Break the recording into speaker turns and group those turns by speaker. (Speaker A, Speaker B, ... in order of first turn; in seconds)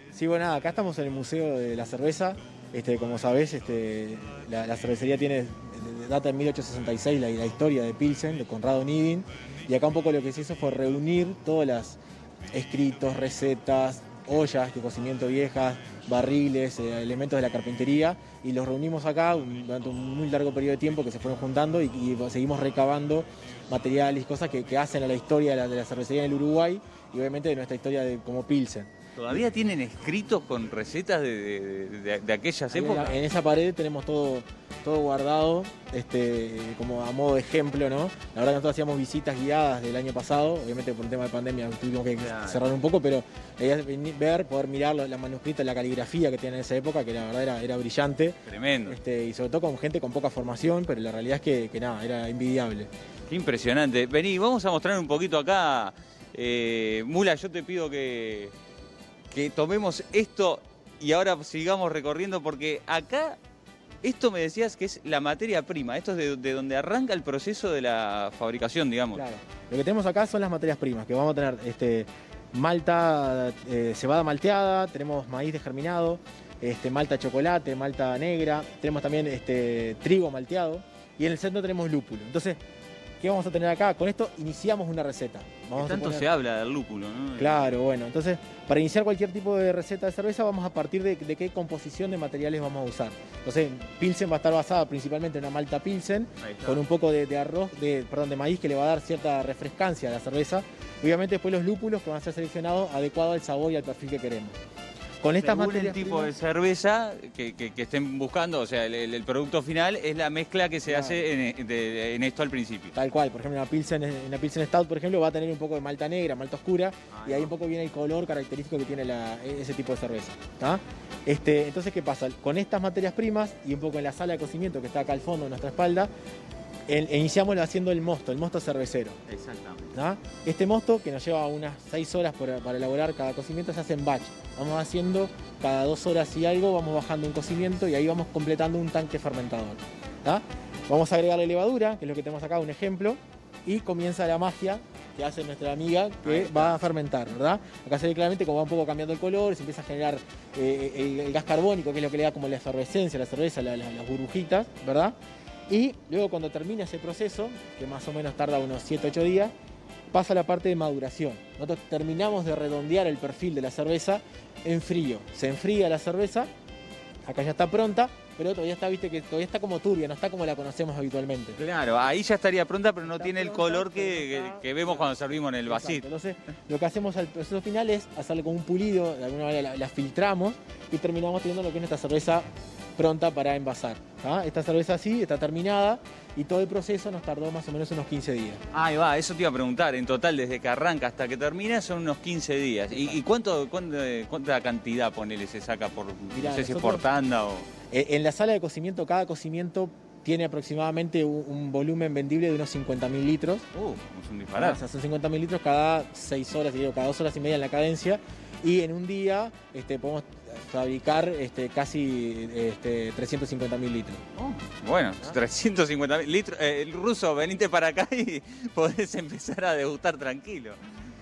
Speaker A: 0.1-12.0, 12.5-28.9, 32.7-52.9, 69.1-82.6, 83.2-86.3, 87.4-104.6, 105.2-106.3, 110.9-111.3, 113.0-126.1, 126.9-129.2, 129.9-155.1, 155.7-159.5, 160.1-166.5, 167.3-171.6, 173.0-188.6, 192.9-193.2, 196.3-197.1, 197.9-203.7, 204.6-214.2
Speaker B: 29.2-33.2, 42.2-42.6, 48.5-49.0, 53.3-58.5, 59.3-63.4, 64.0-69.2, 85.8-87.7, 96.4-96.8, 105.4-113.0, 117.1-117.5, 129.3-130.0, 146.2-146.8, 171.6-176.1, 188.7-197.7, 203.7-204.8, 214.3-220.8